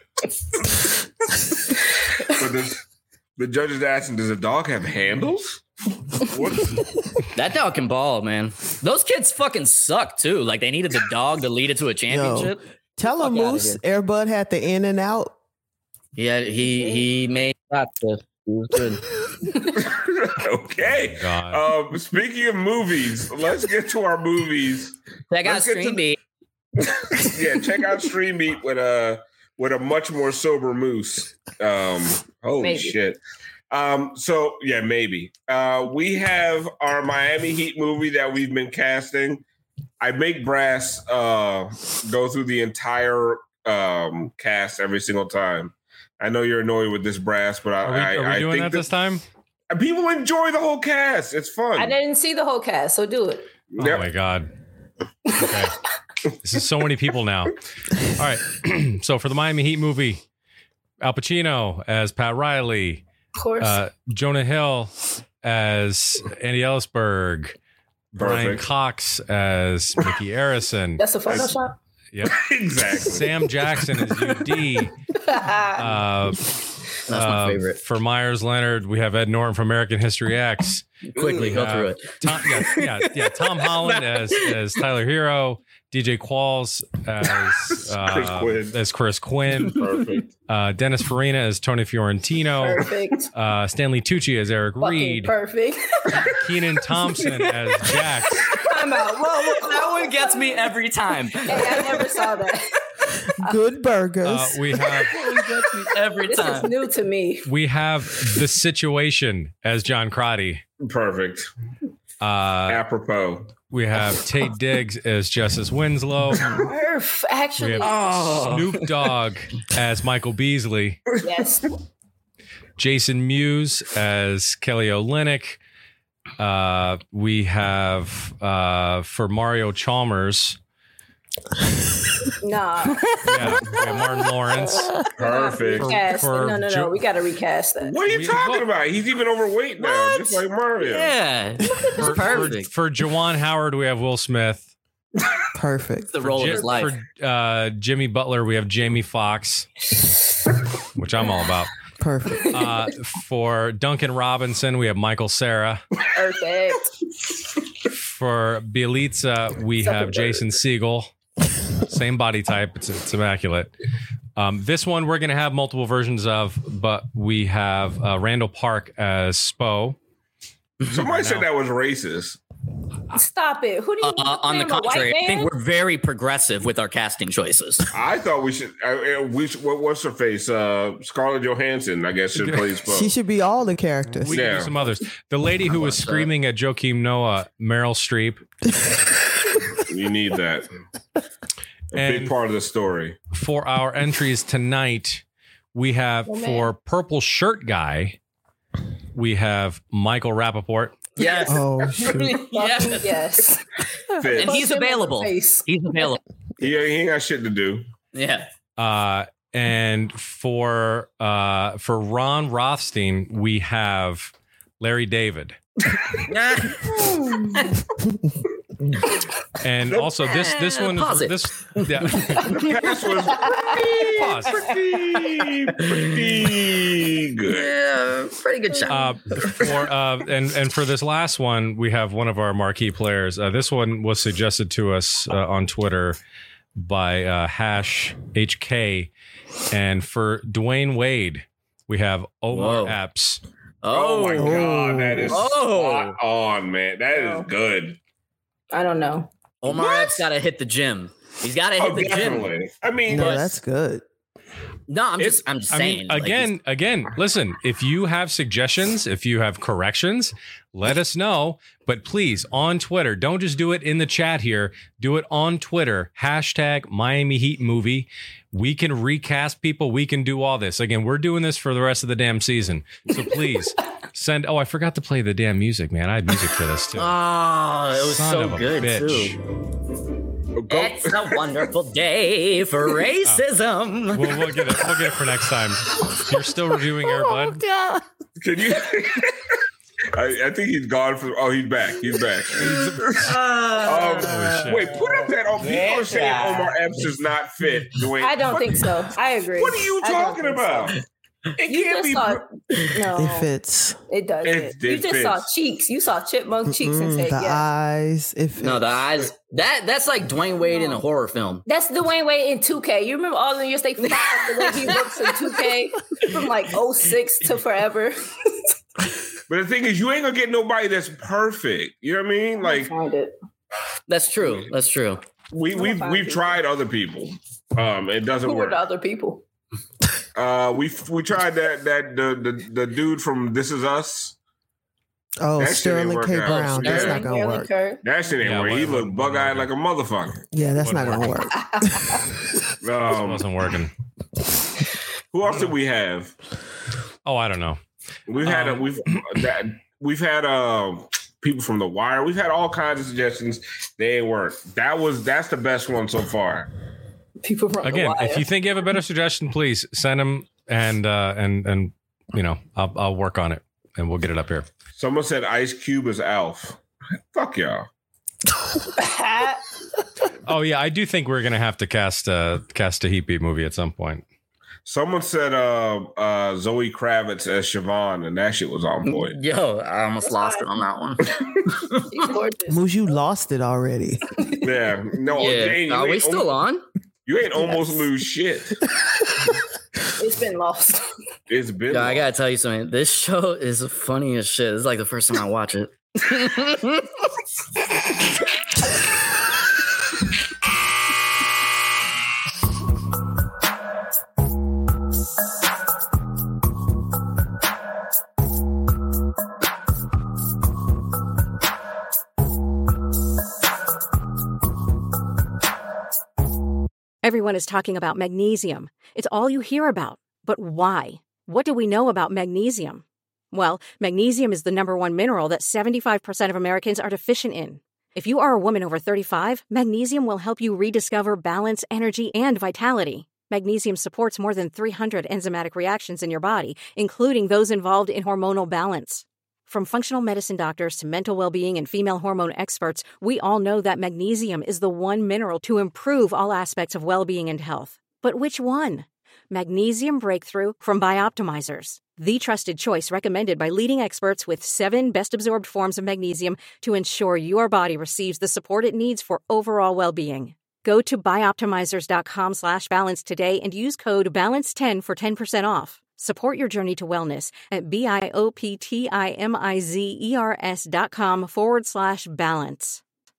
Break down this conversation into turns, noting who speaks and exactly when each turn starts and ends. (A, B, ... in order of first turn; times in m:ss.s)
0:02.3-0:02.8 A
0:03.4-0:05.6 A
0:06.2-0:06.9 A
0:07.3-0:12.6 B
0:12.1-0:15.3 C
0:13.2-0:13.8 B
0:16.2-0:19.1 B
0:19.7-0:26.0 A
0:20.9-0:21.6 D
0:25.3-0:26.2 B
0:26.8-0:33.2 A
0:32.6-0:32.9 E
0:33.7-0:39.4 A
0:40.0-0:48.9 A
0:47.8-0:49.2 D
0:49.7-0:52.0 A
0:51.8-0:53.5 E
0:53.7-0:54.1 A
0:53.8-0:54.5 D
0:55.3-0:55.7 D
0:56.4-0:57.6 D
0:58.1-1:00.2 D
1:01.0-1:03.0 D
1:03.3-1:03.8 E
1:03.6-1:07.6 D
1:08.1-1:11.0 D
1:08.2-1:08.7 A
1:11.0-1:11.8 E
1:12.1-1:12.4 D
1:12.2-1:13.3 A
1:13.0-1:14.9 D
1:15.2-1:15.9 E
1:15.8-1:16.5 D
1:17.1-1:17.8 B
1:17.1-1:29.8 D
1:21.1-1:24.5 B
1:27.9-1:28.8 A
1:29.6-1:30.3 A
1:30.5-1:35.3 D
1:32.6-1:33.3 E
1:34.8-1:36.3 E
1:36.3-1:38.5 D
1:38.5-1:40.1 E
1:38.5-1:42.0 B
1:41.5-1:42.6 E
1:43.4-1:44.8 C
1:44.2-1:45.1 D
1:45.1-1:46.7 B
1:46.3-1:47.5 E
1:47.4-1:50.6 D
1:50.8-1:51.5 A
1:52.2-1:52.8 D
1:52.7-1:53.5 A
1:53.7-1:56.4 D
1:56.5-1:57.9 E
1:57.6-2:01.0 D
1:57.8-1:59.0 B
2:01.2-2:01.7 E
2:02.8-2:05.6 D
2:06.4-2:10.6 D
2:12.4-2:13.0 E
2:13.2-2:15.0 D
2:15.2-2:16.0 A
2:15.2-2:18.0 E
2:15.7-2:16.9 D
2:17.8-2:21.2 A
2:18.1-2:18.7 D
2:19.8-2:20.4 E
2:20.8-2:22.7 B
2:21.9-2:24.7 D
2:25.6-2:26.2 C
2:26.1-2:26.9 B
2:26.2-2:29.8 D
2:31.0-2:31.7 D
2:32.0-2:32.7 C
2:32.4-2:35.8 D
2:36.1-2:36.9 E
2:37.9-2:41.1 D
2:39.8-2:40.4 E
2:41.8-2:43.7 D
2:44.4-2:50.0 D
2:50.8-2:52.4 A
2:51.0-2:51.5 D
2:53.1-2:55.5 E
2:54.0-2:57.9 B
2:57.9-3:03.1 A
3:02.3-3:02.6 D
3:02.9-3:04.5 C
3:04.1-3:08.4 D
3:04.3-3:04.8 A
3:05.7-3:06.3 B
3:09.8-3:10.7 A
3:11.9-3:12.3 D
3:11.9-3:13.2 A
3:13.3-3:18.2 D
3:16.3-3:16.7 E
3:19.1-3:21.1 D
3:21.2-3:23.3 B
3:21.2-3:23.7 E
3:21.5-3:22.4 C
3:24.2-3:24.6 A
3:24.3-3:25.7 E
3:24.3-3:26.2 B
3:26.6-3:27.8 A
3:28.1-3:28.5 B
3:28.8-3:35.6 D
3:36.3-3:37.6 B
3:39.6-3:42.5 D
3:39.8-3:40.2 A
3:40.2-3:42.4 B
3:42.4-3:47.7 A
3:44.2-3:44.7 D
3:45.8-3:46.5 B
3:47.5-3:49.5 B
3:48.9-3:56.2 D
3:56.8-3:59.1 D
3:59.7-4:03.4 D
4:02.5-4:03.0 B
4:03.8-4:04.6 B
4:03.9-4:08.0 A
4:04.3-4:05.3 C
4:05.3-4:06.2 B
4:07.1-4:07.5 E
4:08.7-4:09.3 E
4:09.6-4:12.5 B
4:09.7-4:10.2 A
4:11.8-4:13.5 A
4:13.1-4:14.0 C
4:13.1-4:13.5 B
4:14.9-4:16.5 B
4:15.7-4:37.1 D
4:36.9-4:39.4 B
4:38.0-4:39.4 D
4:40.6-4:41.4 A
4:40.7-4:44.7 B
4:44.1-4:47.6 D
4:47.3-4:48.0 C
4:48.4-4:49.6 A
4:50.1-4:58.9 A
4:52.6-4:53.1 D
4:53.2-4:56.8 B
4:54.2-4:54.9 D
4:58.2-5:00.9 E
4:59.6-5:01.0 A
5:01.6-5:02.4 A
5:01.7-5:03.5 E
5:03.2-5:04.0 C
5:04.1-5:07.6 E
5:04.4-5:05.5 A
5:06.7-5:08.8 C
5:08.6-5:11.6 B
5:10.7-5:11.0 E
5:11.6-5:18.2 E
5:14.1-5:14.7 B
5:19.5-5:22.9 A
5:22.6-5:23.3 E
5:24.1-5:25.2 B
5:25.5-5:28.8 A
5:25.7-5:26.6 E
5:28.4-5:29.4 E
5:30.3-5:34.4 A
5:35.4-5:37.7 C
5:35.6-5:37.3 A
5:36.4-5:38.0 E
5:38.0-5:40.4 A
5:38.4-5:39.7 D
5:40.5-5:42.2 C
5:40.8-5:41.4 D
5:41.6-5:42.2 E
5:42.8-5:43.5 A
5:43.0-5:43.9 D
5:45.3-5:46.3 A
5:45.4-5:45.7 D
5:47.2-5:47.8 D
5:48.3-5:56.7 A
5:48.4-5:49.2 D
5:57.4-5:58.5 E
5:57.8-6:04.7 D
6:05.0-6:06.8 A
6:07.3-6:07.9 A
6:09.0-6:09.6 E
6:10.4-6:14.2 D
6:14.8-6:19.4 A
6:19.0-6:22.0 B
6:20.2-6:20.6 E
6:22.1-6:22.8 E
6:22.7-6:24.2 C
6:24.6-6:26.5 A
6:25.4-6:26.8 B
6:27.2-6:28.7 A
6:30.2-6:31.0 E
6:31.5-6:32.2 A
6:31.9-6:37.1 B
6:57.2-7:53.0 F